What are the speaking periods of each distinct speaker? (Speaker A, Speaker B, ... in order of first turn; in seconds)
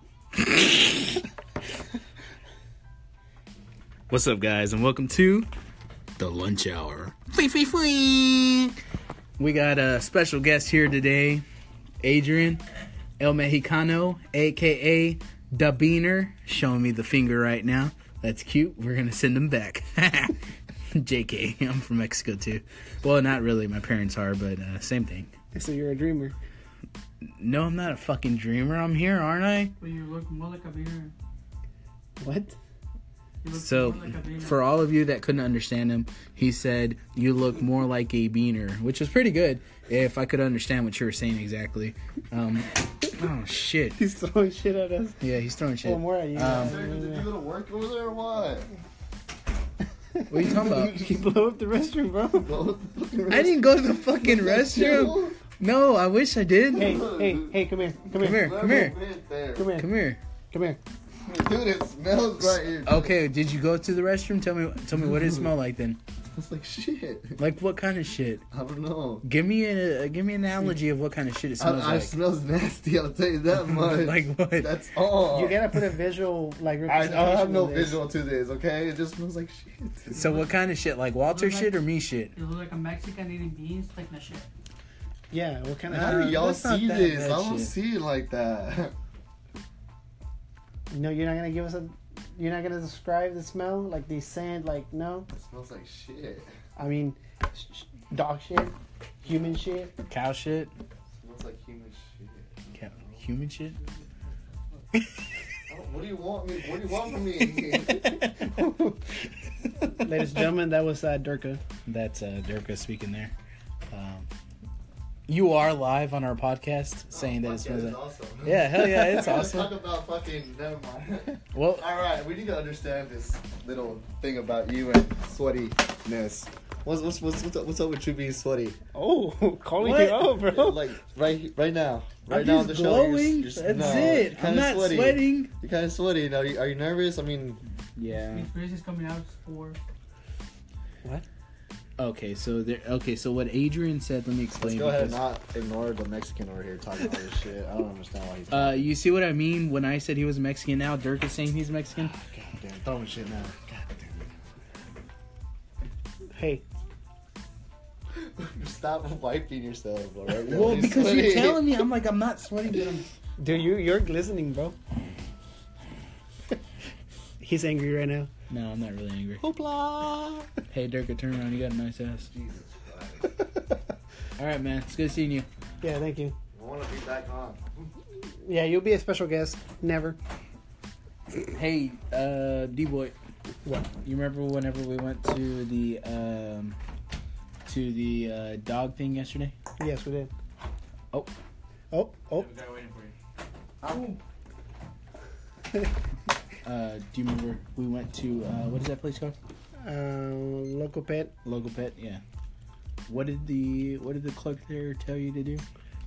Speaker A: 4.1-5.5, 6.2-8.8, 9.4-11.4, 12.0-12.6, 13.2-20.4, 20.9-25.3, 27.2-29.7, 33.5-44.0, 45.2-46.8, 50.3-51.0, 53.3-57.0, 58.2-59.0, 59.8-60.2, 62.4-66.0, 67.4-68.5, 69.2-72.2, 73.8-74.7, 80.1-82.3, 86.0-87.7, 100.1-100.7, 102.7-103.8, 111.9-113.3, 113.9-114.3, 115.3-119.7, 121.5-121.9, 132.3-135.5, 137.9-138.5, 142.0-145.2, 148.5-152.1, 160.5-163.1, 168.5-169.4, 170.7-172.3, 174.4-175.4, 181.4-183.1, 184.0-186.8, 187.7-189.5, 192.3-193.1, 193.8-194.2, 196.6-199.3, 201.4-202.2, 203.1-205.6
Speaker B: 25.5-26.4, 32.2-32.5, 43.9-45.2, 45.8-47.3, 50.2-52.5, 56.8-58.7, 59.5-59.9, 60.5-60.8, 75.3-78.0, 85.3-86.4, 90.9-95.3, 96.8-99.9, 110.0-111.6, 128.9-130.9, 156.3-156.6, 163.4-164.8, 167.4-168.3, 169.4-170.5, 175.8-176.3, 178.2-180.2, 189.8-190.3, 191.9-192.5, 199.8-201.3
Speaker C: 29.8-31.1, 33.4-34.6, 80.1-80.4, 81.2-81.8, 82.3-84.5, 138.2-139.8
Speaker D: 46.5-48.7, 52.4-55.4, 56.8-57.5, 58.2-59.7, 61.2-63.1, 66.3-67.4, 68.5-69.2, 71.6-75.7, 76.9-80.4, 85.9-88.9, 95.3-96.5, 101.2-103.2, 105.7-108.2, 117.1-128.8, 129.8-137.6, 144.6-148.9, 151.9-154.3, 158.1-161.7, 172.3-173.3, 176.5-177.9